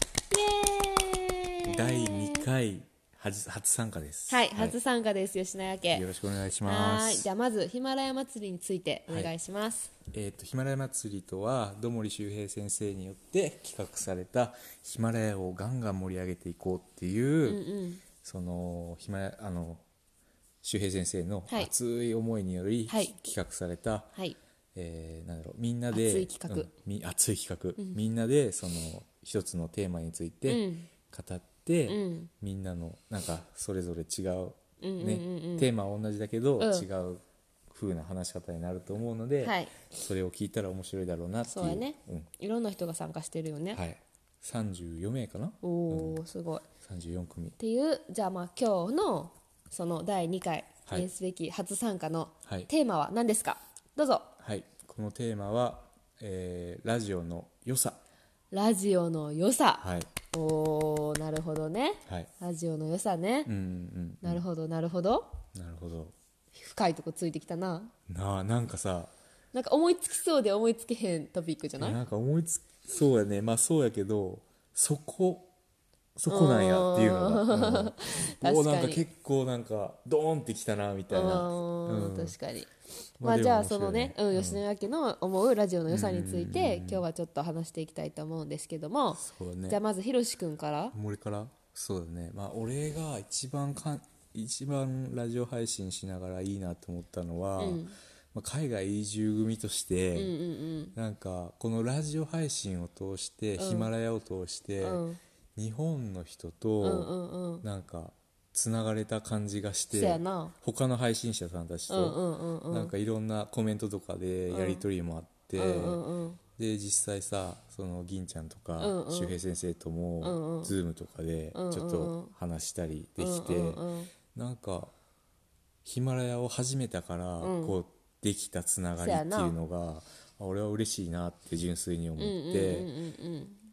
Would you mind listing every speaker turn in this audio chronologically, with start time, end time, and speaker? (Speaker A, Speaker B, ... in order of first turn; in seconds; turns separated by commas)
Speaker A: 0.3-2.5, Speaker B: 1.7-4.8, Speaker A: 4.3-6.1, Speaker B: 5.9-7.3, Speaker A: 6.7-9.9, Speaker B: 10.1-17.6, Speaker A: 17.5-18.0, Speaker B: 18.2-19.8, Speaker B: 20.6-24.1, Speaker A: 22.9-23.2, Speaker B: 24.8-42.3, Speaker A: 25.9-26.7, Speaker A: 30.5-30.9, Speaker A: 31.9-32.3, Speaker A: 34.8-35.7, Speaker A: 36.6-36.9, Speaker A: 39.4-39.8, Speaker A: 41.5-43.8, Speaker B: 43.7-46.2, Speaker A: 45.6-46.7, Speaker B: 46.8-47.6, Speaker A: 47.6-54.3, Speaker B: 54.4-58.0, Speaker A: 58.5-63.5, Speaker B: 59.8-60.1, Speaker B: 63.5-64.4, Speaker A: 64.2-65.3, Speaker B: 65.5-66.1, Speaker A: 66.5-67.9, Speaker B: 68.1-69.1, Speaker A: 69.5-72.0, Speaker B: 71.8-75.5, Speaker B: 76.2-82.4, Speaker A: 76.3-79.1, Speaker A: 81.1-91.0, Speaker B: 83.2-84.6, Speaker B: 85.9-87.1, Speaker B: 89.2-89.8, Speaker B: 90.9-100.4, Speaker A: 97.6-98.0, Speaker A: 100.2-101.0, Speaker B: 101.0-105.0, Speaker A: 103.6-103.9, Speaker A: 104.8-105.2, Speaker B: 105.6-107.1, Speaker A: 106.8-107.7, Speaker B: 107.6-116.0, Speaker A: 109.9-110.5, Speaker A: 111.9-112.9, Speaker A: 114.5-114.8, Speaker A: 115.6-116.4, Speaker B: 116.6-123.8, Speaker A: 118.8-119.4, Speaker A: 120.2-120.8, Speaker A: 121.5-122.3, Speaker A: 123.2-124.1, Speaker B: 124.3-124.9, Speaker B: 125.8-132.9, Speaker A: 127.4-127.8, Speaker A: 129.0-129.6, Speaker A: 132.2-133.6